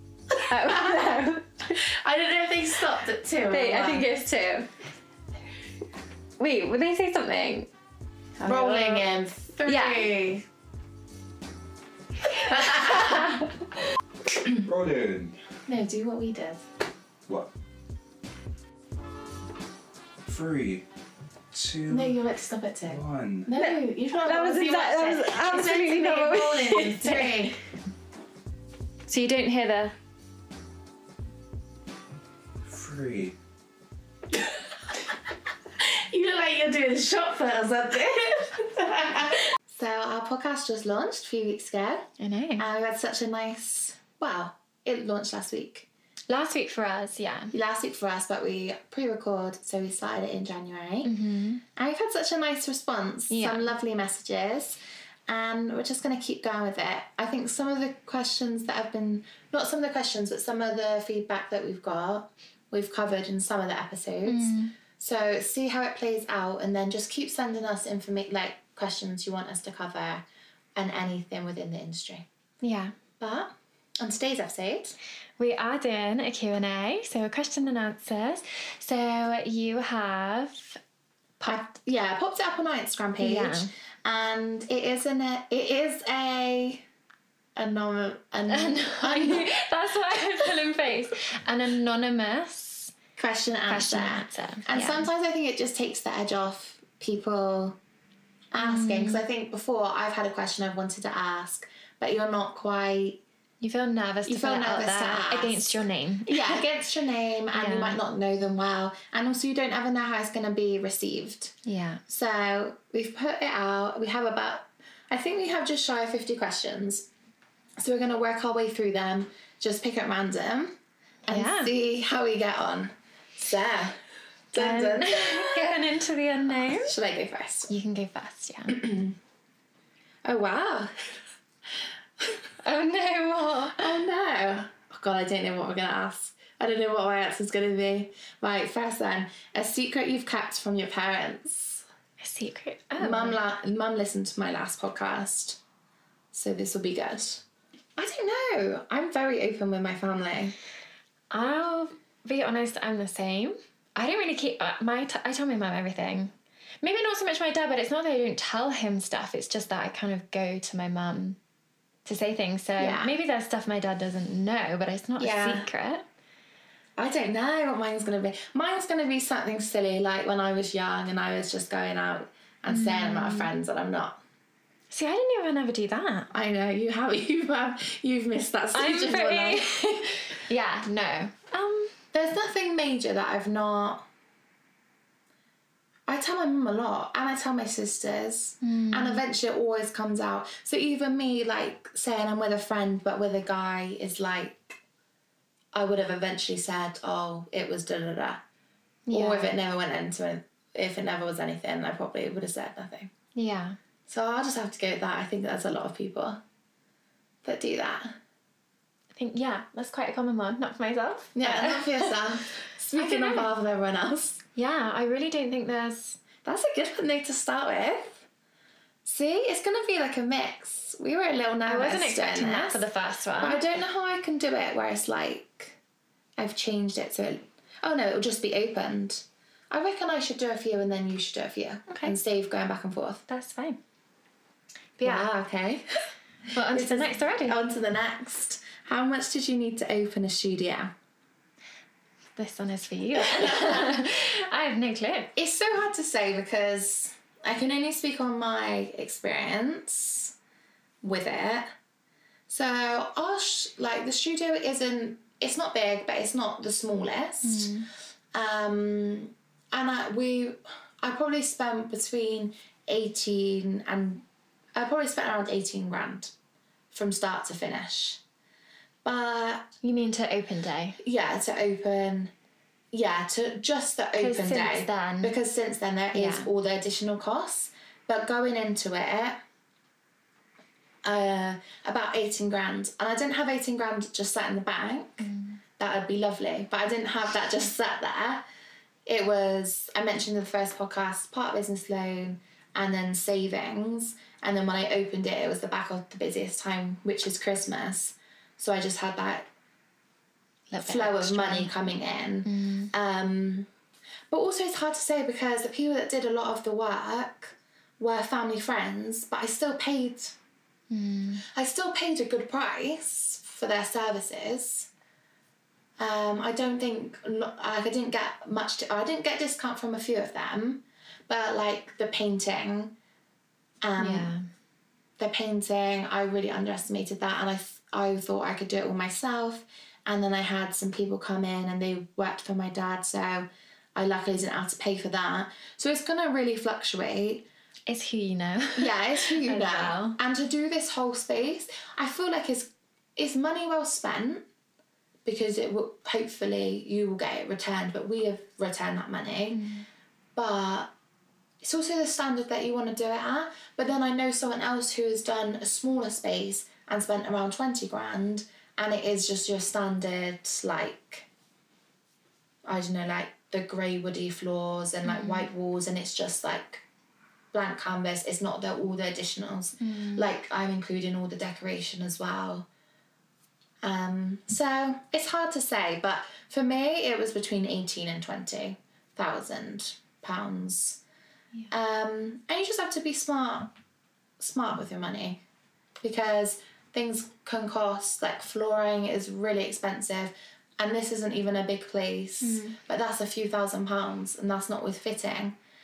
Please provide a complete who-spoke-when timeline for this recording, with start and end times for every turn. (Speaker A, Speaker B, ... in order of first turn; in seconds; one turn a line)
Speaker A: 0.5-1.8
Speaker B: 0.6-4.1
Speaker A: 3.5-4.7
Speaker A: 6.4-7.7
Speaker B: 8.4-10.4
Speaker A: 8.4-9.1
Speaker A: 9.7-10.1
Speaker B: 12.3-13.5
Speaker A: 12.6-13.4
Speaker C: 14.5-15.3
Speaker B: 15.7-16.6
Speaker C: 20.2-20.8
Speaker C: 21.5-22.2
Speaker B: 21.9-27.6
Speaker C: 22.9-23.5
Speaker A: 23.5-27.5
Speaker A: 29.1-29.9
Speaker C: 32.6-33.3
Speaker B: 35.8-45.9
Speaker A: 42.2-42.7
Speaker A: 46.3-47.5
Speaker B: 47.5-51.1
Speaker A: 51.0-51.6
Speaker B: 51.7-70.2
Speaker A: 53.3-53.7
Speaker A: 64.2-64.7
Speaker B: 70.7-72.2
Speaker A: 72.6-72.9
Speaker B: 73.2-75.0
Speaker A: 75.4-80.8
Speaker A: 81.4-81.7
Speaker B: 81.5-86.8
Speaker A: 83.2-83.7
Speaker B: 87.5-89.6
Speaker A: 88.5-92.9
Speaker B: 90.1-90.5
Speaker B: 93.2-97.8
Speaker A: 93.7-95.1
Speaker B: 98.5-103.2
Speaker A: 98.6-99.2
Speaker A: 103.6-106.6
Speaker B: 104.2-111.5
Speaker A: 107.5-108.0
Speaker A: 111.6-112.0
Speaker B: 112.1-117.1
Speaker B: 117.8-124.0
Speaker A: 121.3-121.7
Speaker B: 124.5-125.7
Speaker A: 124.5-126.9
Speaker B: 126.6-127.7
Speaker A: 127.7-128.8
Speaker B: 128.7-129.2
Speaker B: 130.2-131.2
Speaker A: 132.6-133.8
Speaker B: 133.8-141.8
Speaker A: 142.2-143.4
Speaker B: 143.0-145.6
Speaker B: 146.3-147.4
Speaker B: 147.9-150.6
Speaker A: 151.3-161.4
Speaker A: 162.0-166.0
Speaker B: 162.8-163.1
Speaker B: 165.2-165.7
Speaker B: 167.0-174.2
Speaker A: 172.7-173.5
Speaker A: 174.9-176.3
Speaker B: 176.3-179.9
Speaker A: 178.7-181.9
Speaker B: 182.1-184.1
Speaker B: 186.1-194.8
Speaker A: 188.6-189.2
Speaker B: 195.7-198.4
Speaker A: 199.1-199.5
Speaker B: 199.1-203.1
Speaker A: 203.3-203.8
Speaker B: 204.1-206.4
Speaker B: 207.4-208.2
Speaker A: 209.1-213.5
Speaker B: 211.3-214.4
Speaker A: 214.6-216.2
Speaker B: 216.4-218.2
Speaker B: 219.0-222.9
Speaker A: 221.6-223.6
Speaker B: 223.4-225.8
Speaker B: 226.4-233.2
Speaker A: 231.9-232.1
Speaker A: 233.3-233.8
Speaker A: 235.0-235.3
Speaker B: 235.0-235.8
Speaker A: 236.5-237.6
Speaker B: 236.7-240.9
Speaker A: 242.3-245.3
Speaker B: 243.1-244.1
Speaker B: 245.3-250.3
Speaker B: 251.0-251.7
Speaker B: 252.5-257.8
Speaker A: 257.4-257.9
Speaker B: 258.3-264.2
Speaker B: 264.8-266.3
Speaker B: 266.9-268.2
Speaker B: 269.0-269.7
Speaker A: 269.8-271.0
Speaker B: 271.0-272.3
Speaker B: 272.9-279.4
Speaker A: 274.2-275.3
Speaker A: 276.1-276.5
Speaker B: 281.0-288.4
Speaker A: 285.2-285.6
Speaker B: 289.1-299.5
Speaker A: 300.7-301.8
Speaker B: 300.8-303.7
Speaker A: 302.4-302.9
Speaker B: 304.3-310.4
Speaker A: 310.9-311.4
Speaker B: 311.4-314.9
Speaker B: 316.0-322.9
Speaker B: 323.8-324.3
Speaker A: 324.0-324.4
Speaker B: 325.2-337.5
Speaker A: 337.9-340.2
Speaker B: 338.8-344.4
Speaker B: 345.2-349.6
Speaker A: 349.5-349.9
Speaker B: 350.3-350.9
Speaker B: 351.6-361.3
Speaker B: 362.6-366.8
Speaker A: 365.0-365.5
Speaker B: 367.5-372.7
Speaker A: 369.8-370.3
Speaker B: 373.8-381.0
Speaker B: 381.7-383.7
Speaker B: 384.4-385.4
Speaker B: 386.0-395.6
Speaker A: 392.4-392.8